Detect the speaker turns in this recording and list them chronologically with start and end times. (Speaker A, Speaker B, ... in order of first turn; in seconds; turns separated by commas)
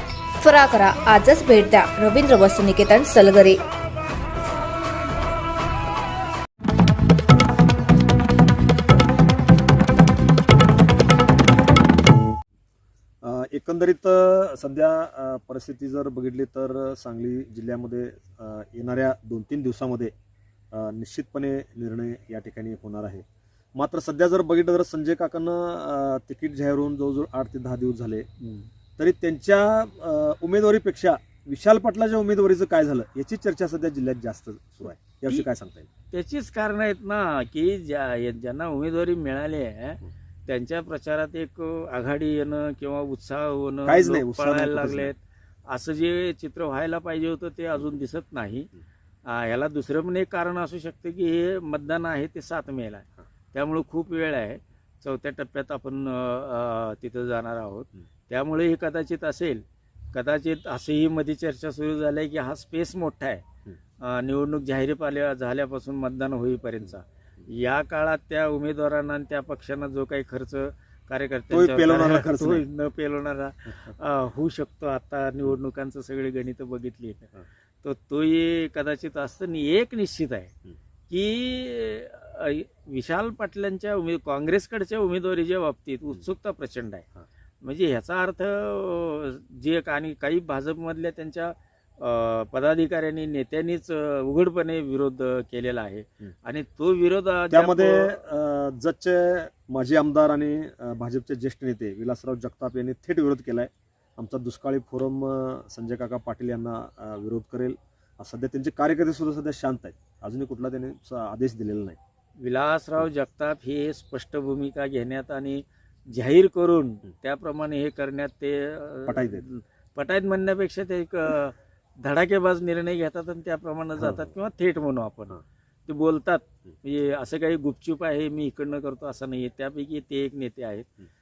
Speaker A: 0.4-3.6, Speaker B: 13.2-20.1, Speaker B: 20.7-23.2, Speaker B: 23.8-28.3, Speaker C: 28.4-28.7, Speaker B: 29.0-35.9, Speaker C: 36.1-48.7, Speaker B: 43.9-45.1, Speaker C: 49.2-63.4, Speaker C: 64.0-80.5, Speaker B: 71.5-72.7, Speaker B: 73.7-73.9, Speaker C: 81.1-87.1, Speaker C: 87.6-98.2, Speaker B: 97.5-112.0, Speaker C: 112.4-130.9, Speaker B: 119.1-119.5, Speaker B: 124.0-124.3